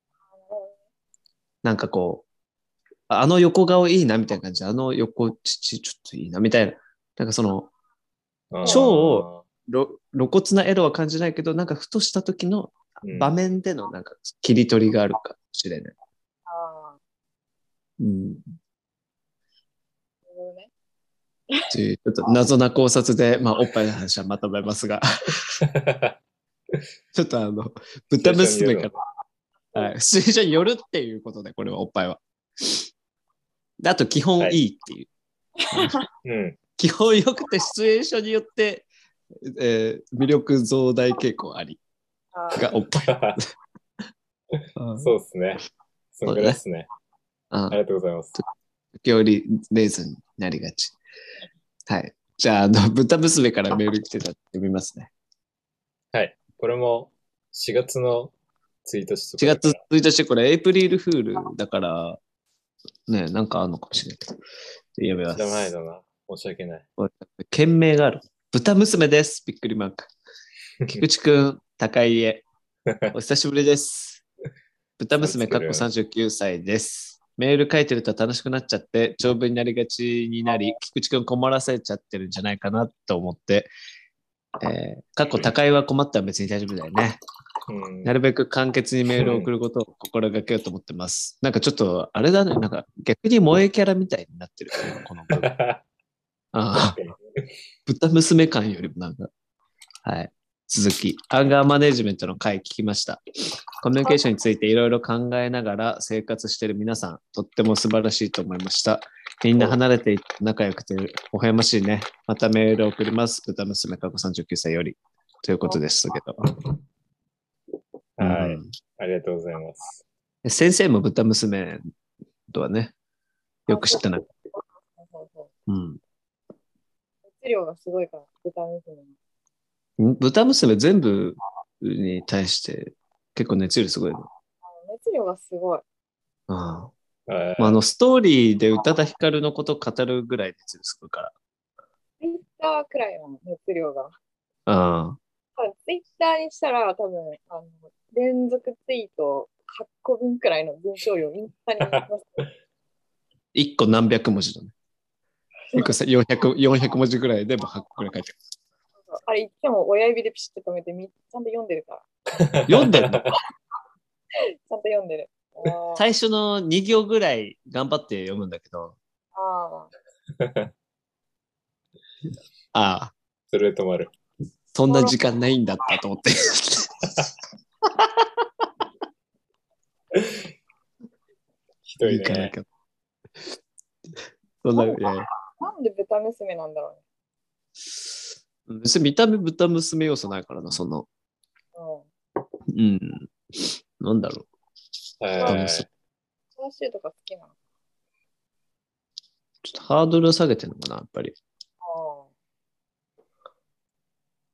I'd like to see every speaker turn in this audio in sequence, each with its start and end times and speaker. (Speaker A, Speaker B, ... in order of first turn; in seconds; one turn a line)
Speaker A: 0.3-0.8
Speaker B: 1.6-2.2
Speaker B: 3.1-7.7
Speaker C: 8.5-9.4
Speaker B: 8.6-15.9
Speaker C: 13.0-13.3
Speaker A: 16.4-17.0
Speaker B: 18.0-18.4
Speaker A: 20.3-20.7
Speaker B: 21.7-25.5
Speaker C: 25.6-26.1
Speaker B: 27.1-28.9
Speaker C: 28.2-29.0
Speaker B: 29.7-32.9
Speaker B: 33.8-35.1
Speaker A: 35.6-36.0
Speaker C: 36.2-36.6
Speaker B: 36.8-38.9
Speaker B: 39.4-41.8
Speaker A: 42.3-42.6
Speaker B: 42.5-43.4
Speaker C: 43.0-43.4
Speaker B: 44.8-45.1
Speaker C: 45.0-46.9
Speaker B: 46.2-46.6
Speaker B: 47.5-47.8
Speaker C: 47.7-48.4
Speaker B: 49.0-51.0
Speaker B: 51.9-55.1
Speaker C: 56.1-58.3
Speaker C: 58.8-59.8
Speaker B: 59.4-62.2
Speaker B: 63.1-64.4
Speaker B: 65.0-65.7
Speaker C: 65.3-66.8
Speaker B: 67.0-70.1
Speaker B: 70.9-72.4
Speaker B: 73.1-74.2
Speaker B: 75.0-83.7
Speaker C: 75.2-75.9
Speaker B: 84.6-87.2
Speaker C: 87.7-88.2
Speaker B: 88.0-95.5
Speaker C: 89.2-89.5
Speaker C: 95.3-95.8
Speaker B: 96.5-97.0
Speaker C: 96.7-97.2
Speaker B: 97.9-99.3
Speaker B: 100.0-103.2
Speaker B: 103.8-116.5
Speaker C: 118.2-120.0
Speaker B: 118.2-118.7
Speaker B: 120.4-121.8
Speaker B: 122.5-122.9
Speaker B: 123.7-124.2
Speaker A: 123.7-125.5
Speaker B: 125.7-126.0
Speaker A: 127.3-129.1
Speaker B: 130.0-134.3
Speaker A: 134.6-135.8
Speaker B: 136.5-136.9
Speaker C: 137.3-137.8
Speaker B: 137.6-141.3
Speaker A: 142.2-144.1
Speaker B: 144.7-145.2
Speaker A: 145.6-152.4
Speaker B: 153.5-154.7
Speaker B: 155.7-158.3
Speaker A: 159.1-162.0
Speaker C: 162.4-163.3
Speaker B: 162.7-163.2
Speaker A: 164.7-166.1
Speaker B: 165.9-168.9
Speaker A: 169.3-169.9
Speaker B: 172.7-173.1
Speaker C: 173.5-174.1
Speaker B: 174.7-177.3
Speaker A: 174.9-175.1
Speaker B: 177.8-178.7
Speaker C: 180.1-180.4
Speaker C: 181.8-182.5
Speaker B: 182.0-182.7
Speaker B: 184.6-185.3
Speaker A: 184.7-187.0
Speaker B: 188.7-191.1
Speaker A: 191.7-192.1
Speaker B: 192.7-194.5
Speaker C: 195.2-195.9
Speaker A: 195.3-195.6
Speaker B: 195.4-195.8
Speaker A: 196.6-197.5
Speaker B: 199.6-201.3
Speaker A: 201.8-202.3